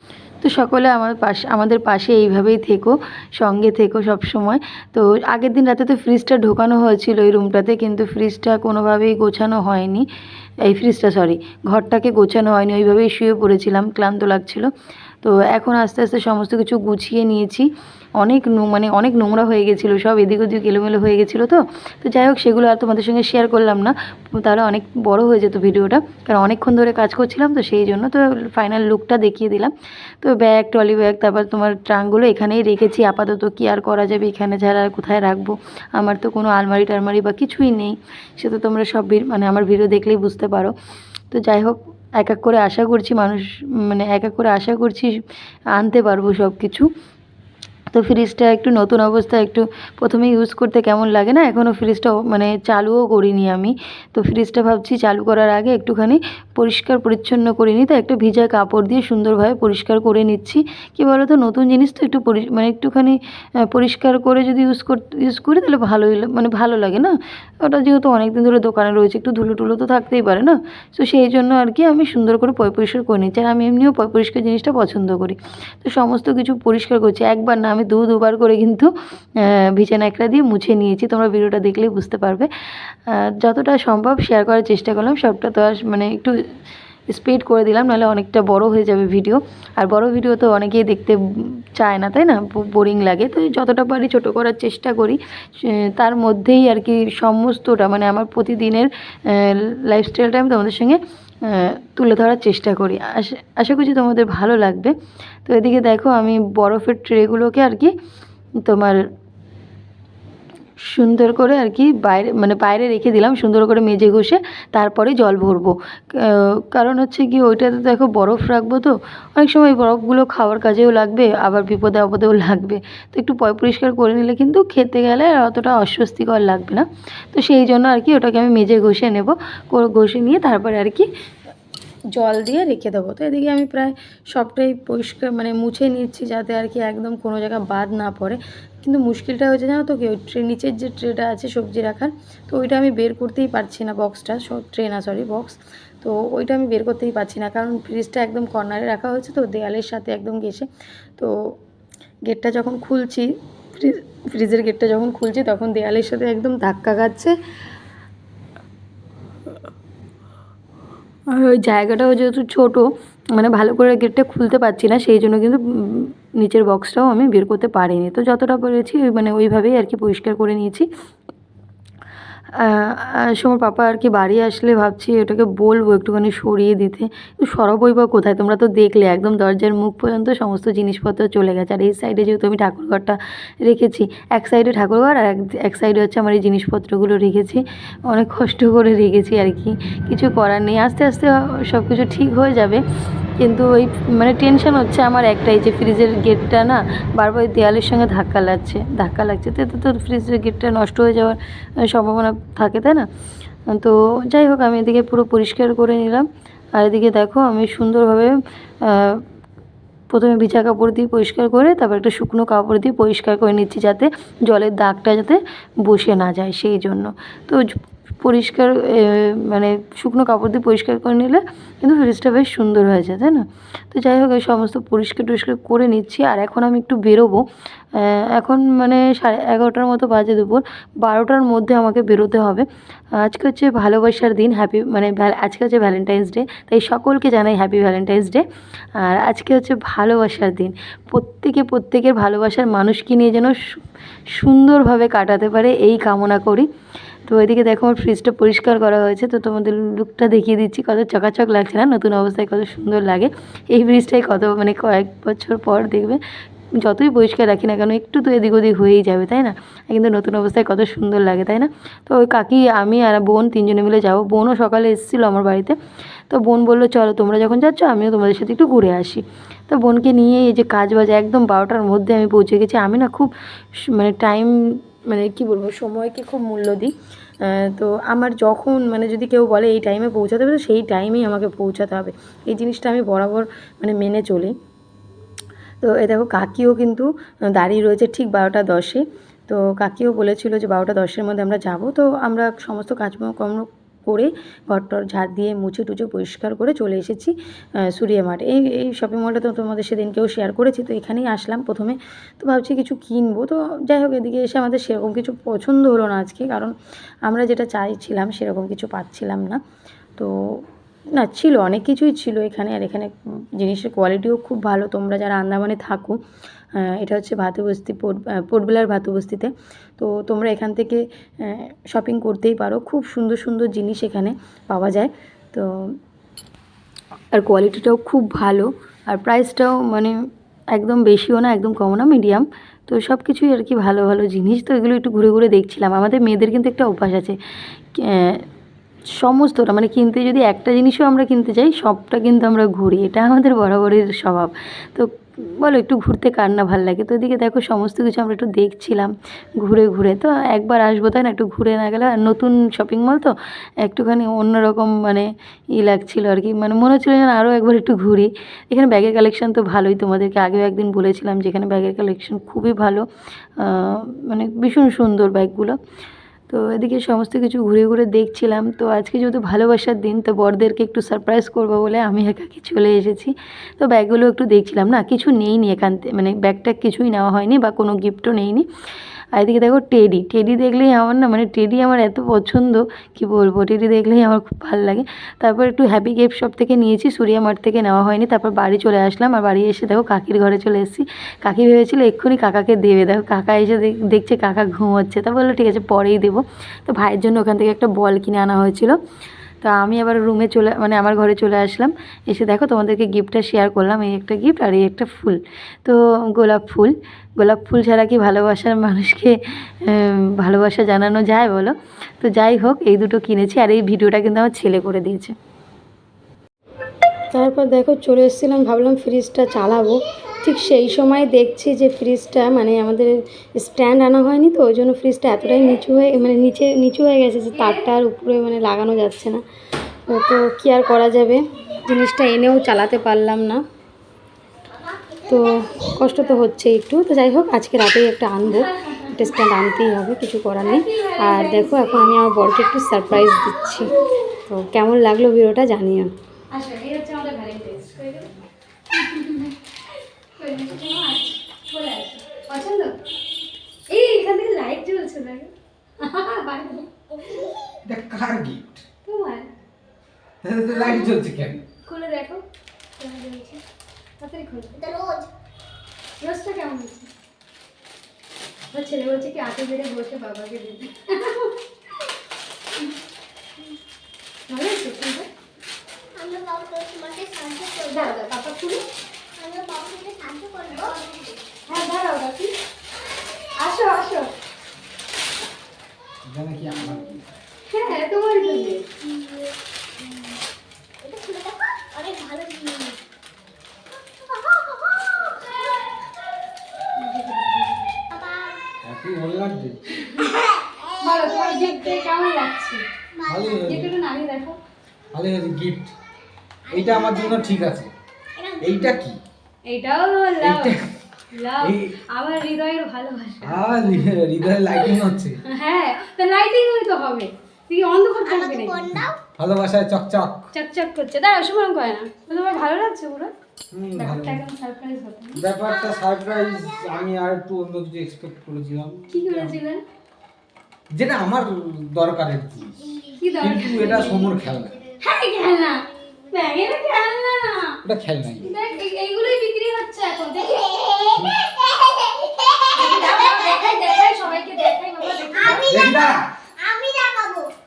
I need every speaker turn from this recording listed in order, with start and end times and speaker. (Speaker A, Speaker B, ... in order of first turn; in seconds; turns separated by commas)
Speaker A: 0.4-10.1, Speaker A: 10.6-14.7, Speaker A: 15.2-17.7, Speaker A: 18.2-40.7, Speaker A: 41.3-45.2, Speaker A: 45.7-46.9, Speaker A: 47.9-86.3, Speaker A: 87.1-104.9, Speaker A: 105.5-107.9, Speaker A: 108.6-109.0, Speaker A: 110.8-131.1, Speaker A: 132.1-150.7, Speaker A: 152.2-157.3, Speaker A: 161.3-170.9, Speaker A: 172.6-192.8, Speaker A: 193.4-203.1, Speaker A: 203.7-209.2, Speaker A: 210.1-217.6, Speaker A: 218.2-238.4, Speaker A: 239.0-246.7, Speaker A: 247.2-256.2, Speaker A: 256.7-265.8, Speaker A: 266.3-284.5, Speaker A: 285.8-306.7, Speaker A: 307.2-309.6, Speaker A: 310.2-316.2, Speaker A: 316.8-325.9, Speaker A: 327.3-337.4, Speaker A: 337.9-338.4, Speaker A: 339.1-363.0, Speaker A: 363.6-365.8, Speaker A: 366.5-378.7, Speaker A: 379.3-399.0, Speaker A: 399.6-415.3, Speaker A: 417.3-429.4, Speaker B: 427.5-427.9, Speaker A: 430.1-433.6, Speaker C: 434.8-435.9, Speaker A: 435.2-443.9, Speaker B: 438.4-439.3, Speaker B: 440.6-442.2, Speaker B: 443.7-444.1, Speaker A: 444.5-446.1, Speaker B: 446.5-448.3, Speaker B: 448.9-449.5, Speaker B: 450.4-452.9, Speaker B: 453.9-457.4, Speaker C: 457.2-457.7, Speaker D: 457.8-458.8, Speaker B: 459.1-459.5, Speaker D: 460.4-461.6, Speaker B: 461.9-462.4, Speaker B: 463.0-463.6, Speaker B: 464.2-464.8, Speaker C: 464.8-465.3, Speaker B: 466.2-467.1, Speaker B: 468.7-471.6, Speaker B: 474.5-475.3, Speaker C: 476.2-478.1, Speaker B: 477.9-478.8, Speaker C: 479.4-481.4, Speaker B: 481.7-482.5, Speaker B: 483.6-484.3, Speaker D: 486.2-487.2, Speaker B: 487.7-488.9, Speaker C: 489.0-490.3, Speaker C: 491.0-493.0, Speaker C: 494.0-495.8, Speaker B: 497.0-498.0, Speaker C: 498.1-498.6, Speaker D: 498.8-499.8, Speaker B: 500.0-500.4, Speaker B: 501.0-502.8, Speaker C: 501.5-501.7, Speaker C: 503.2-503.6, Speaker D: 503.2-503.9, Speaker B: 503.6-504.6, Speaker D: 505.1-505.9, Speaker C: 506.7-507.6, Speaker D: 506.7-507.9, Speaker C: 508.4-509.0, Speaker D: 508.6-509.2, Speaker B: 509.6-510.8, Speaker D: 510.4-510.9, Speaker B: 511.3-513.8, Speaker D: 511.6-512.0, Speaker D: 513.4-515.4, Speaker B: 515.4-518.9, Speaker C: 518.2-519.2, Speaker D: 519.0-520.5, Speaker B: 520.5-523.3, Speaker D: 523.7-524.4, Speaker B: 524.0-525.4, Speaker D: 525.3-529.6, Speaker C: 525.7-526.9, Speaker B: 529.1-529.8, Speaker D: 530.9-534.8, Speaker C: 532.8-534.2, Speaker B: 533.2-534.3, Speaker B: 535.0-537.8, Speaker D: 537.8-538.5, Speaker B: 538.4-540.7, Speaker C: 540.6-544.1, Speaker B: 542.7-545.8, Speaker C: 545.4-547.5, Speaker D: 545.6-546.3